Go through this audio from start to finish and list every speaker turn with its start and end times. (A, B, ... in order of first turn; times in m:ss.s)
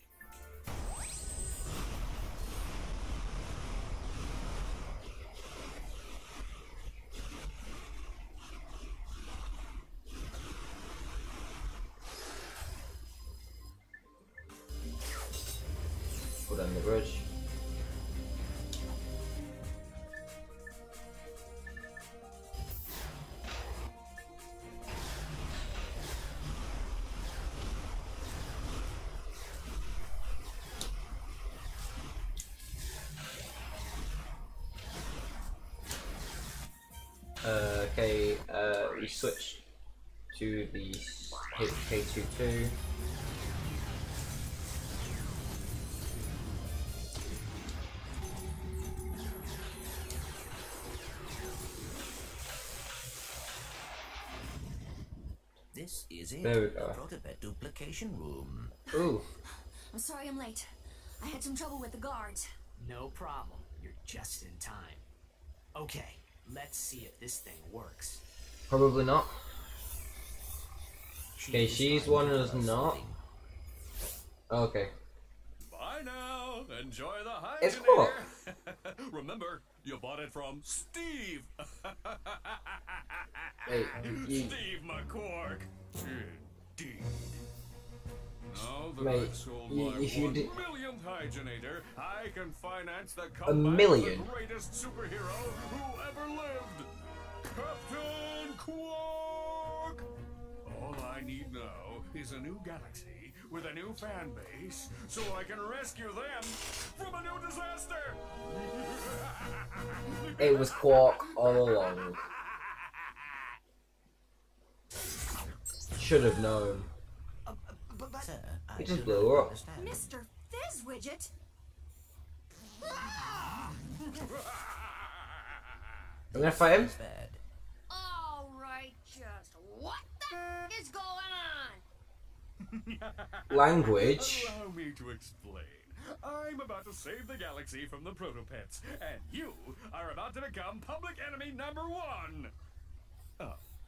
0:16.5-0:17.3 A
0:37.4-0:39.6 A
0:40.3-0:42.7 A
0:55.7-0:58.8 B
0:56.4-0:57.0 A
0:58.9-0:59.3 A
0:59.9-1:02.4 C
1:02.8-1:05.0 D
1:05.7-1:08.2 D
1:08.7-1:09.6 A
1:11.4-1:13.2 B
1:11.5-1:13.0 A
1:14.5-1:14.9 A
1:15.7-1:27.4 E
1:17.6-1:18.2 A
1:23.6-1:24.6 A
1:28.5-1:36.9 E
1:29.0-1:30.5 A
1:33.4-1:34.3 A
1:37.4-1:40.0 E
1:40.6-1:51.7 E
1:50.4-1:52.2 A
1:56.0-1:56.9 A
1:57.4-1:58.3 D
1:58.2-2:00.1 B
1:58.8-1:59.6 A
1:59.7-2:01.3 C
2:02.9-2:03.7 C
2:04.0-2:06.0 E
2:06.3-2:07.4 B
2:06.3-2:06.9 A
2:07.9-2:11.8 C
2:12.6-2:22.5 E
2:13.5-2:14.6 A